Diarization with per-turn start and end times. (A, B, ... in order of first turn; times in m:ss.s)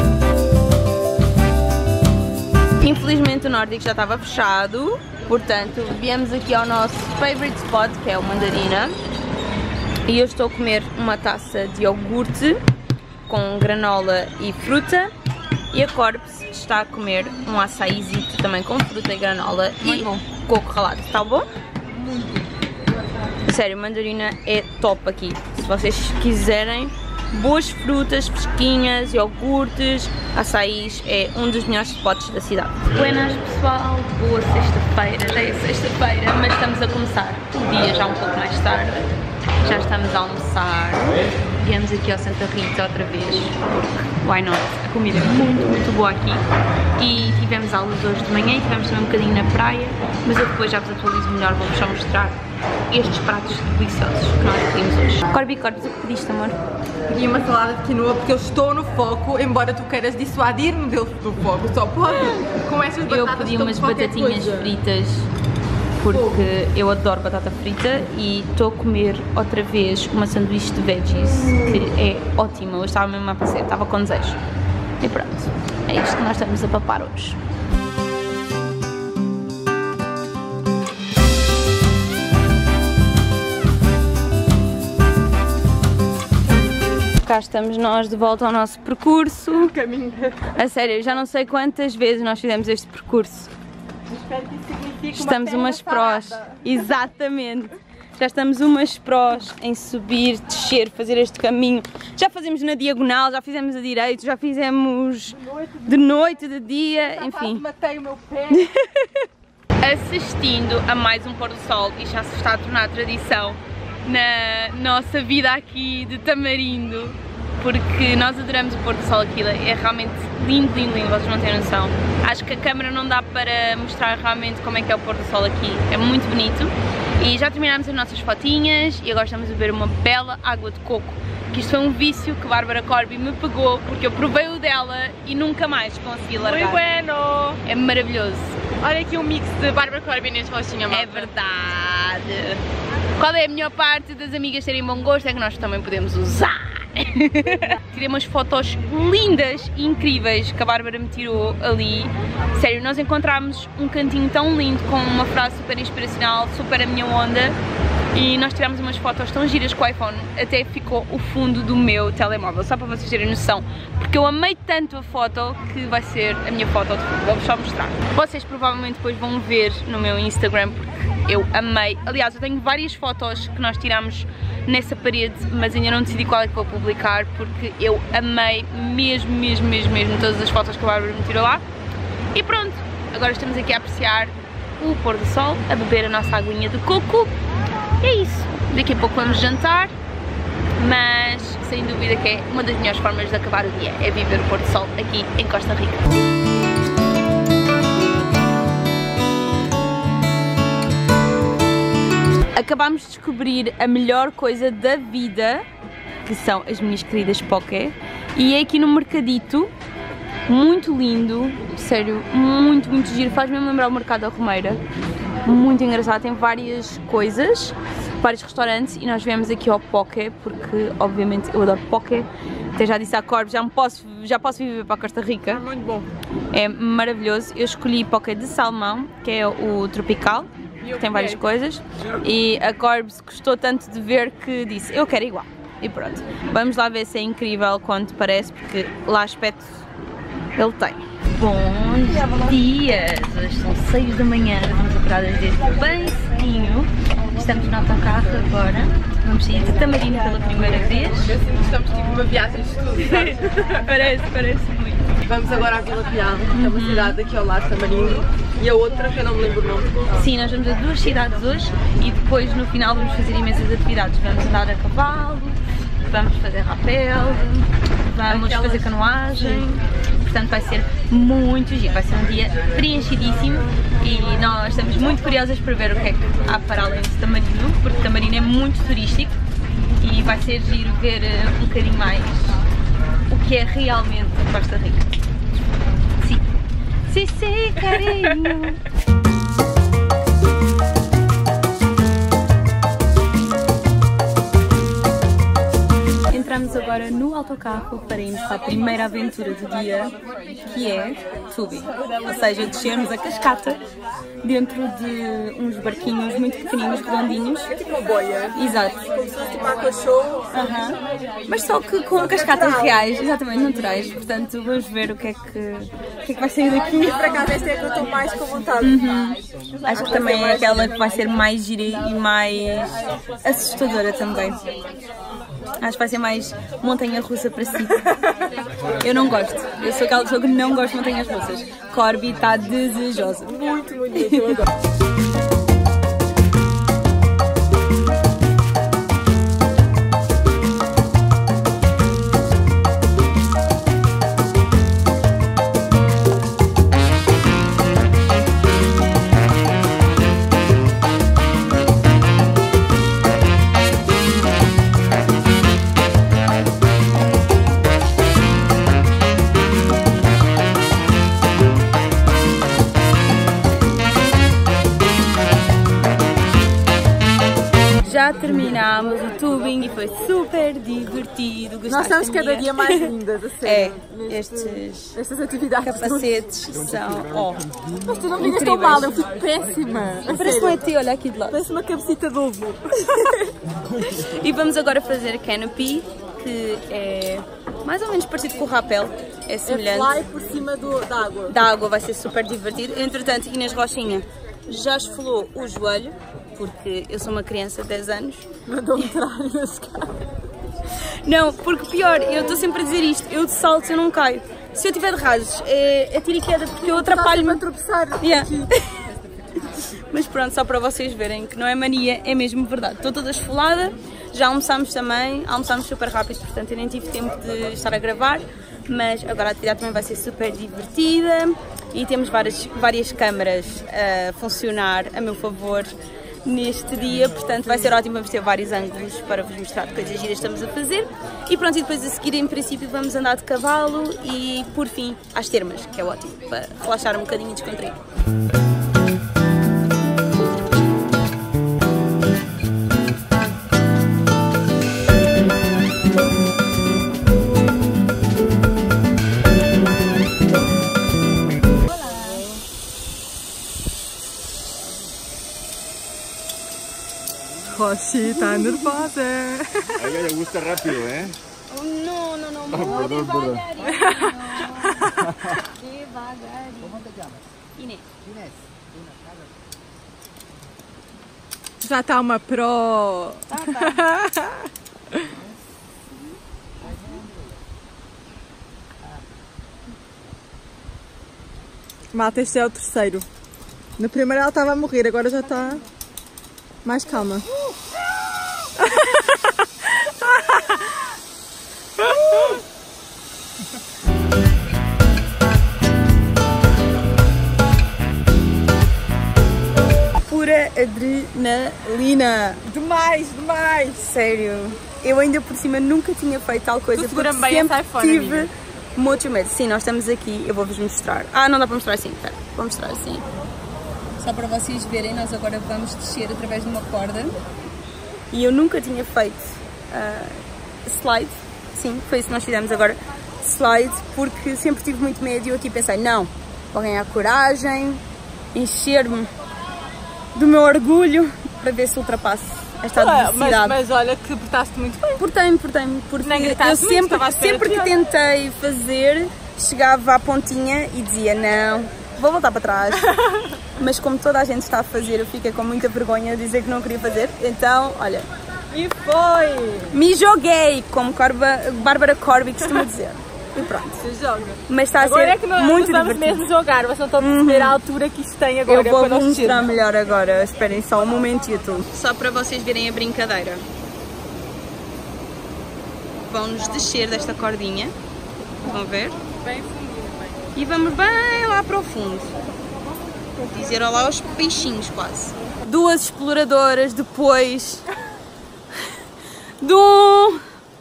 0:02.8-0:09.0 A
0:10.0-0:12.6 A
0:13.3-0:15.1 A
0:15.7-0:21.5 A
0:19.8-0:20.2 B
0:21.9-0:22.4 B
0:23.4-0:39.1 A
0:39.6-0:46.4 A
0:47.0-0:56.6 A
0:57.1-1:04.8 B
1:03.0-1:05.3 A
1:06.0-1:14.4 A
1:06.1-1:06.4 B
1:15.0-1:17.4 A
1:27.2-1:29.7 A
1:29.6-1:30.5 B
1:30.5-1:33.5 A
1:34.1-1:36.6 B
1:35.1-1:47.6 A
1:45.4-1:46.0 B
1:46.9-1:48.7 B
1:48.5-1:49.3 A
1:49.8-2:16.8 A
2:16.4-2:17.6 B
2:17.6-2:18.6 A
2:18.8-2:21.3 B
2:20.9-2:22.6 A
2:23.2-2:37.6 A
2:38.1-3:01.6 A
3:02.3-3:07.3 A
3:08.0-3:09.9 A
3:10.8-3:16.1 A
3:22.5-3:25.6 A
3:26.2-3:29.7 A
3:30.5-3:34.8 A
3:35.4-3:45.6 A
3:45.5-3:46.1 B
3:46.5-3:59.8 A
3:50.8-3:51.4 B
4:00.5-4:11.3 A
4:10.7-4:13.9 B
4:13.7-4:15.1 A
4:15.2-4:20.3 B
4:16.5-4:17.2 A
4:20.1-4:39.3 A
4:28.2-4:29.6 B
4:40.0-4:42.6 A
4:43.3-4:45.1 A
4:47.1-4:48.8 A
4:48.0-4:48.3 B
4:56.3-5:03.8 A
5:04.4-5:07.6 A
5:07.7-5:10.8 B
5:08.5-5:09.0 A
5:10.5-5:17.5 A
5:12.3-5:13.0 B
5:16.8-5:19.0 B
5:18.8-5:24.6 A
5:19.8-5:21.2 B
5:25.8-5:28.1 A
5:29.0-5:33.6 A
5:33.4-5:34.7 B
5:34.1-5:34.6 A
6:08.0-6:15.1 A
6:11.9-6:16.4 B
6:15.8-6:17.7 A
6:17.9-6:20.8 B
6:18.4-6:19.2 A
6:20.2-6:21.6 A
6:21.5-6:23.5 B
6:23.1-6:23.4 A
6:23.9-6:30.3 A
6:29.6-6:31.6 B
6:31.5-6:39.1 A
6:38.6-6:40.2 B
6:40.9-6:47.6 A
6:46.8-6:48.7 B
6:48.2-6:49.1 A
6:49.6-7:18.0 A
7:31.9-7:32.5 A
7:37.7-7:40.0 B
7:39.9-7:41.3 C
7:41.7-7:48.1 A
7:42.7-7:43.6 C
7:43.9-7:45.2 B
7:51.8-7:55.4 B
7:53.5-7:54.0 A
8:02.1-8:03.3 B
8:04.0-8:05.8 B
8:06.8-8:07.5 B
8:08.7-8:11.1 B
8:12.0-8:12.6 B
8:20.2-8:22.6 A
8:22.6-8:24.2 B
8:24.0-8:33.2 A
8:26.9-8:28.5 B
8:34.2-8:37.4 A
8:38.3-8:48.0 A
8:48.5-8:49.3 A
8:50.3-8:53.8 A
8:52.9-8:55.2 B
8:55.2-9:03.1 A
8:56.2-8:57.9 B
9:03.0-9:03.6 B
9:03.8-9:08.2 A
9:08.7-9:09.9 B
9:09.9-9:14.0 A
9:14.0-9:19.7 B
9:14.7-9:16.5 A
9:17.2-9:17.8 A
9:18.7-9:23.6 A
9:26.2-9:27.9 A
9:28.6-9:29.2 A
9:29.3-9:30.4 B
9:30.5-9:32.3 A
9:33.5-9:37.8 A
9:39.6-9:40.4 A